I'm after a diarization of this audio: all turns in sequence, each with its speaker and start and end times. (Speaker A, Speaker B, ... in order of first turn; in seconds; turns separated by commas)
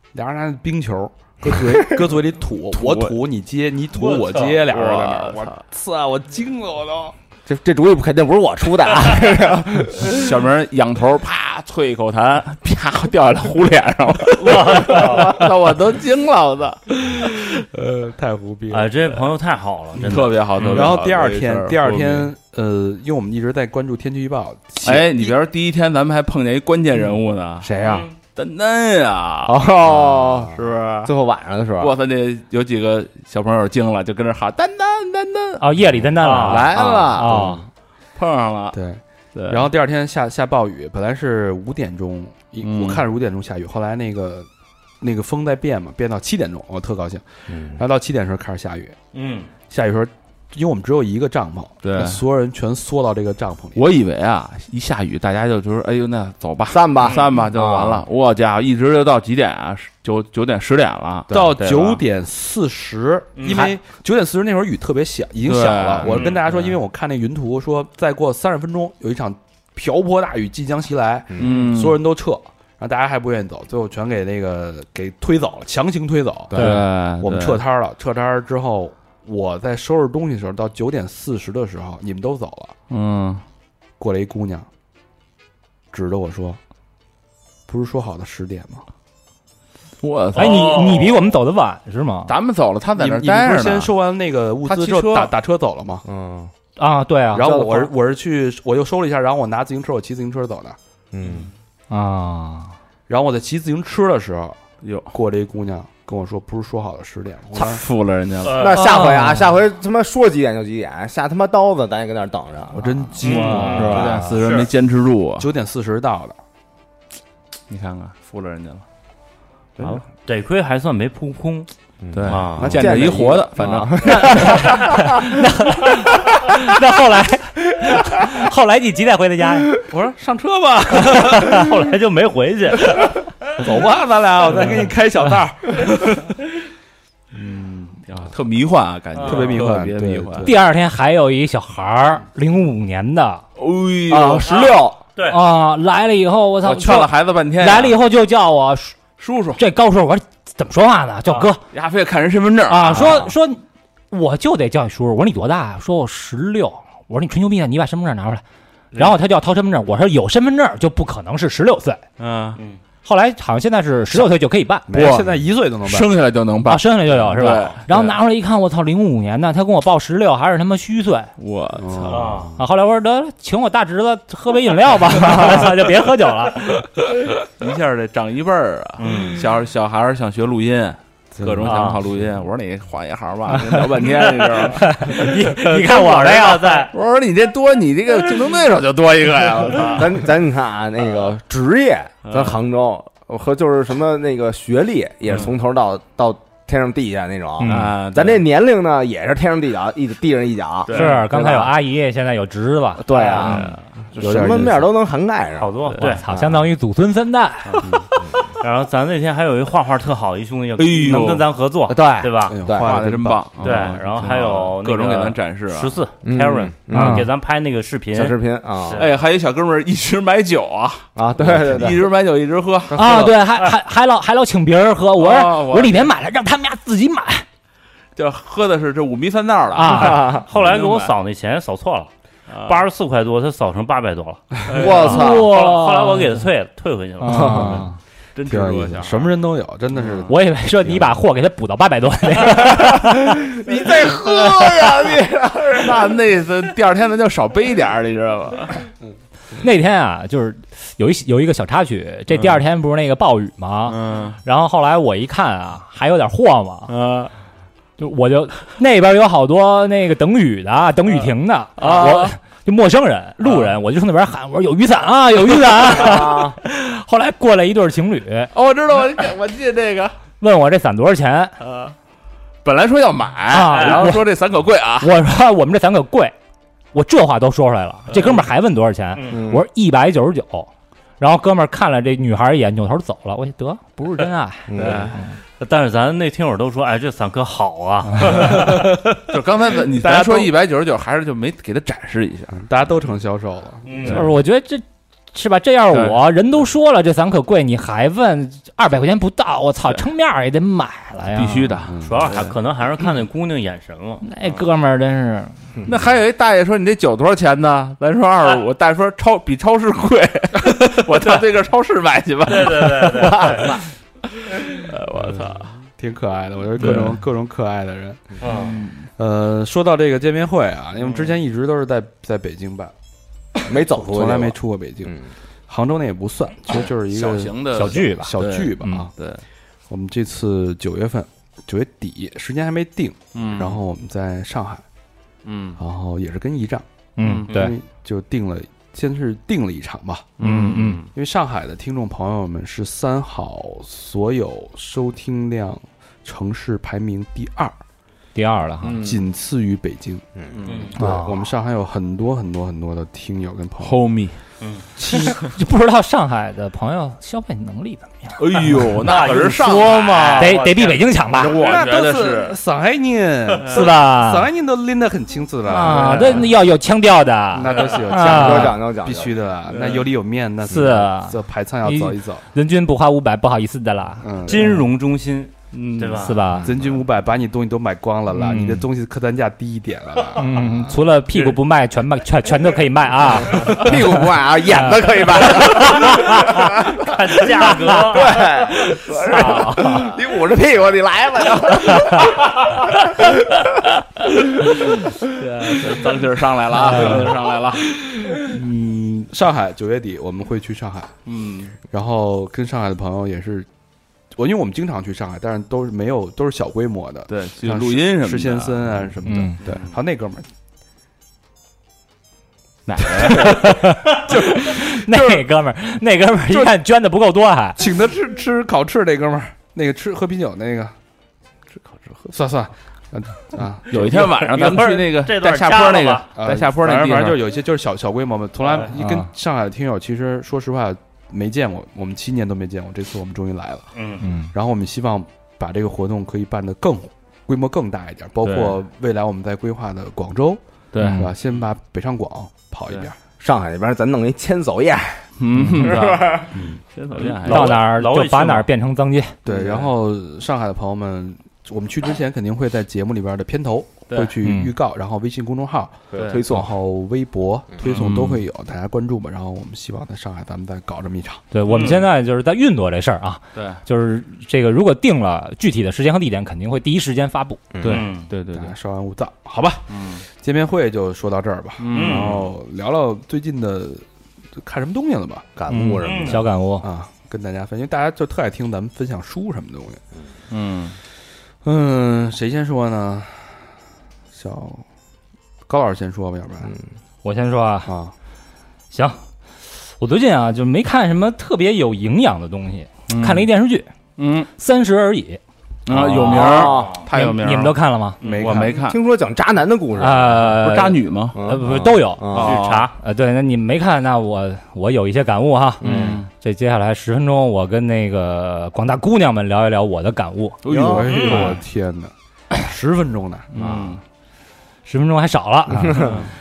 Speaker A: 0.1-7.2, Speaker B: 1.5-1.9, Speaker C: 2.7-3.2, Speaker D: 4.0-4.5, Speaker C: 4.6-5.6, Speaker B: 7.5-10.3, Speaker C: 10.1-16.8, Speaker D: 14.4-15.4, Speaker A: 17.1-19.2, Speaker D: 18.7-20.9, Speaker A: 20.0-25.4, Speaker C: 20.0-22.3, Speaker C: 24.8-27.8, Speaker B: 27.6-28.1, Speaker D: 27.8-28.1, Speaker C: 28.3-31.1, Speaker B: 29.4-31.9, Speaker C: 31.8-35.6, Speaker E: 35.6-37.6, Speaker D: 36.2-36.6, Speaker C: 36.2-37.5, Speaker B: 36.7-37.6, Speaker C: 38.2-38.8, Speaker A: 38.7-44.5, Speaker C: 39.3-39.7, Speaker C: 42.6-43.0, Speaker A: 45.0-49.0, Speaker B: 47.5-47.8, Speaker D: 49.1-49.5, Speaker A: 49.7-53.8, Speaker C: 51.8-52.2, Speaker C: 53.8-62.0, Speaker B: 56.7-58.0, Speaker D: 57.0-57.3, Speaker A: 61.3-82.8, Speaker D: 63.4-63.7, Speaker C: 65.4-66.3, Speaker D: 66.1-66.4, Speaker B: 66.2-66.7, Speaker B: 71.3-71.7, Speaker C: 71.4-72.0, Speaker B: 76.5-76.8, Speaker C: 76.6-77.6, Speaker E: 76.6-76.8, Speaker C: 82.9-83.4, Speaker A: 84.0-84.7, Speaker A: 85.9-86.6, Speaker A: 87.7-88.8, Speaker C: 90.0-91.1, Speaker E: 90.3-92.3, Speaker D: 90.4-91.1, Speaker C: 92.3-93.9, Speaker A: 93.0-96.0, Speaker C: 94.7-95.3, Speaker B: 96.0-96.5, Speaker E: 96.8-97.9, Speaker A: 97.3-100.8, Speaker B: 101.1-101.5, Speaker E: 101.9-102.7, Speaker A: 103.1-107.8, Speaker C: 104.8-105.1, Speaker C: 107.6-108.7, Speaker D: 108.4-108.8, Speaker B: 108.5-114.2, Speaker E: 108.7-109.5, Speaker A: 112.7-114.3, Speaker D: 113.2-114.7, Speaker C: 113.2-115.5, Speaker A: 115.4-116.4, Speaker C: 117.7-118.8, Speaker D: 119.8-121.7, Speaker B: 122.0-125.2, Speaker C: 122.1-124.8, Speaker D: 122.3-122.8, Speaker A: 122.6-123.1, Speaker E: 124.1-129.7, Speaker A: 129.9-131.8, Speaker D: 131.2-133.2, Speaker A: 133.6-136.4, Speaker A: 137.3-138.1, Speaker C: 138.1-140.5, Speaker D: 139.2-139.6, Speaker A: 139.2-140.6, Speaker E: 140.4-143.4, Speaker C: 143.6-144.8, Speaker B: 144.1-145.0, Speaker D: 144.4-145.4, Speaker E: 145.3-149.0, Speaker C: 146.6-148.0, Speaker C: 149.2-149.6, Speaker E: 149.6-151.6, Speaker C: 151.7-153.3, Speaker E: 152.7-158.4, Speaker E: 158.9-162.0, Speaker C: 162.2-162.6, Speaker E: 163.1-164.9, Speaker A: 164.9-166.2, Speaker C: 164.9-168.2, Speaker E: 166.7-171.3, Speaker C: 171.4-172.5, Speaker A: 171.8-172.6, Speaker D: 172.1-172.5, Speaker E: 172.6-176.9, Speaker C: 177.4-185.3, Speaker D: 179.0-179.4, Speaker A: 181.4-181.8, Speaker D: 181.7-182.0, Speaker E: 184.7-186.9, Speaker D: 185.4-186.9, Speaker C: 186.9-190.2, Speaker B: 189.9-201.7, Speaker C: 192.3-192.6, Speaker E: 197.6-197.9, Speaker C: 197.6-198.4, Speaker C: 200.9-201.3, Speaker E: 200.9-203.6, Speaker B: 203.0-206.7, Speaker C: 203.4-203.8, Speaker A: 204.2-204.9, Speaker D: 205.6-206.2, Speaker E: 206.0-207.9, Speaker C: 207.7-208.0, Speaker B: 208.2-208.5, Speaker D: 208.6-212.6, Speaker C: 210.8-211.4, Speaker B: 211.9-213.0, Speaker A: 212.5-213.6, Speaker C: 212.7-216.0, Speaker D: 213.6-219.2, Speaker B: 216.2-217.3, Speaker E: 216.9-217.3, Speaker B: 218.1-219.0, Speaker C: 219.0-223.3, Speaker B: 221.2-222.1, Speaker E: 222.9-227.4, Speaker C: 225.2-226.1, Speaker C: 228.2-231.1, Speaker E: 229.7-230.2, Speaker B: 229.9-230.5, Speaker D: 230.3-232.1, Speaker C: 232.5-232.8, Speaker D: 232.7-237.6, Speaker C: 234.7-235.2, Speaker B: 234.7-235.5, Speaker E: 235.0-236.3, Speaker E: 237.2-238.0, Speaker B: 237.3-237.8, Speaker C: 238.3-239.3, Speaker A: 238.5-240.3, Speaker C: 240.0-240.3, Speaker E: 240.3-243.5, Speaker B: 242.5-246.2, Speaker C: 244.5-244.9, Speaker C: 245.7-248.8, Speaker E: 249.6-256.9, Speaker C: 252.3-252.6, Speaker C: 253.9-254.4, Speaker C: 256.9-257.3, Speaker E: 258.0-268.5, Speaker C: 261.8-262.4, Speaker C: 263.4-263.7, Speaker B: 265.8-266.6, Speaker C: 268.5-270.1, Speaker E: 270.4-271.6, Speaker C: 271.6-271.9, Speaker C: 272.6-275.1, Speaker E: 273.5-274.3, Speaker D: 273.7-274.1, Speaker E: 275.0-276.3, Speaker E: 276.9-285.3, Speaker D: 279.1-279.4, Speaker B: 279.3-279.7, Speaker B: 284.7-285.1, Speaker C: 284.8-285.2, Speaker D: 285.6-289.0, Speaker C: 288.4-292.6, Speaker A: 289.9-290.5, Speaker A: 292.5-294.2, Speaker D: 293.9-294.2, Speaker C: 294.0-294.3, Speaker E: 294.1-301.8, Speaker C: 295.9-296.2, Speaker C: 301.3-302.6, Speaker A: 301.9-302.3, Speaker D: 302.0-304.2, Speaker E: 304.2-305.5, Speaker C: 305.9-313.8, Speaker D: 312.5-313.8, Speaker C: 314.4-315.8, Speaker A: 316.0-318.4, Speaker C: 316.8-317.2, Speaker D: 318.4-318.8, Speaker C: 318.6-318.9, Speaker A: 319.0-322.9, Speaker B: 323.7-325.3, Speaker A: 323.9-325.2, Speaker A: 325.7-329.1, Speaker C: 327.1-329.4, Speaker E: 327.7-329.1, Speaker A: 329.9-334.8, Speaker C: 333.3-333.8, Speaker C: 335.4-335.8, Speaker A: 335.8-336.9, Speaker E: 337.2-337.7, Speaker C: 337.2-337.5, Speaker A: 337.5-340.4, Speaker C: 340.4-341.1, Speaker E: 340.4-341.0, Speaker A: 341.1-347.8, Speaker E: 348.4-349.0, Speaker C: 348.8-349.2, Speaker A: 349.0-350.2, Speaker C: 350.6-351.0, Speaker D: 350.7-350.9, Speaker A: 350.9-354.0, Speaker E: 351.0-351.4, Speaker C: 353.8-354.4, Speaker A: 355.0-355.4, Speaker E: 355.1-358.9, Speaker C: 358.4-360.6, Speaker D: 359.0-361.4, Speaker E: 360.3-361.6, Speaker C: 361.3-362.6, Speaker A: 361.6-366.6, Speaker E: 363.7-364.5, Speaker E: 365.7-368.8, Speaker C: 365.9-366.5, Speaker A: 367.5-372.4, Speaker B: 368.2-369.4, Speaker C: 369.7-370.1, Speaker E: 370.7-374.8, Speaker A: 374.2-374.8, Speaker D: 374.5-376.4, Speaker C: 375.7-376.4, Speaker E: 376.2-376.7, Speaker A: 376.6-380.8, Speaker E: 378.3-378.9, Speaker E: 380.4-384.3, Speaker B: 383.4-393.3, Speaker E: 385.5-386.3, Speaker D: 387.0-388.5, Speaker E: 389.3-390.0, Speaker C: 395.4-398.1, Speaker E: 396.9-397.2, Speaker A: 398.4-401.2, Speaker C: 401.3-401.8, Speaker A: 401.9-403.7, Speaker A: 404.4-410.5, Speaker C: 407.3-409.0, Speaker E: 409.3-409.6, Speaker C: 412.9-413.8, Speaker E: 413.0-417.8, Speaker A: 413.2-413.5, Speaker A: 414.3-415.4, Speaker A: 417.8-420.9, Speaker C: 421.9-422.2, Speaker A: 422.3-424.1, Speaker C: 423.9-427.4, Speaker D: 424.0-426.3, Speaker A: 426.4-433.9, Speaker D: 428.6-428.9, Speaker E: 429.0-429.3, Speaker D: 433.9-434.2, Speaker E: 434.2-434.5, Speaker A: 434.5-440.6, Speaker C: 438.4-438.8, Speaker C: 440.9-441.3, Speaker A: 441.1-443.2, Speaker B: 443.4-445.3, Speaker C: 445.4-447.8, Speaker B: 445.8-446.5, Speaker D: 447.1-448.7, Speaker E: 447.5-449.4, Speaker A: 449.4-461.4, Speaker B: 449.5-449.8, Speaker E: 454.4-454.7, Speaker C: 456.1-456.4, Speaker B: 456.1-456.7, Speaker C: 457.8-458.4, Speaker E: 461.5-467.6, Speaker D: 461.7-462.0, Speaker C: 461.7-462.0, Speaker C: 463.6-463.8, Speaker B: 467.7-468.0, Speaker C: 467.8-468.7, Speaker D: 467.8-468.3, Speaker A: 468.5-474.0, Speaker C: 469.9-470.2, Speaker C: 471.8-472.5, Speaker D: 471.9-472.3, Speaker A: 474.6-475.5, Speaker B: 475.6-476.4, Speaker E: 475.8-476.9, Speaker D: 476.0-476.4, Speaker A: 476.8-480.0, Speaker C: 480.5-481.0, Speaker A: 481.6-483.7, Speaker A: 484.3-484.8, Speaker A: 485.7-486.7, Speaker E: 487.2-487.9, Speaker A: 487.9-488.1, Speaker E: 488.9-489.2, Speaker E: 489.9-493.9, Speaker C: 493.1-493.5, Speaker C: 494.2-494.5, Speaker E: 494.6-495.4, Speaker C: 495.9-497.8, Speaker B: 495.9-497.0, Speaker E: 496.2-498.2, Speaker D: 498.2-498.7, Speaker A: 498.2-498.9, Speaker C: 498.4-499.0, Speaker B: 498.9-500.4, Speaker E: 500.0-502.4, Speaker C: 500.4-501.4, Speaker B: 501.3-502.6, Speaker C: 502.3-502.9, Speaker D: 502.4-502.9, Speaker E: 503.0-510.6, Speaker B: 505.8-506.2, Speaker C: 505.8-506.3, Speaker C: 510.6-511.5, Speaker B: 510.7-511.1, Speaker A: 510.7-513.5, Speaker D: 511.1-511.6, Speaker B: 513.6-514.0, Speaker C: 513.6-514.0, Speaker E: 514.9-516.1, Speaker C: 516.0-516.3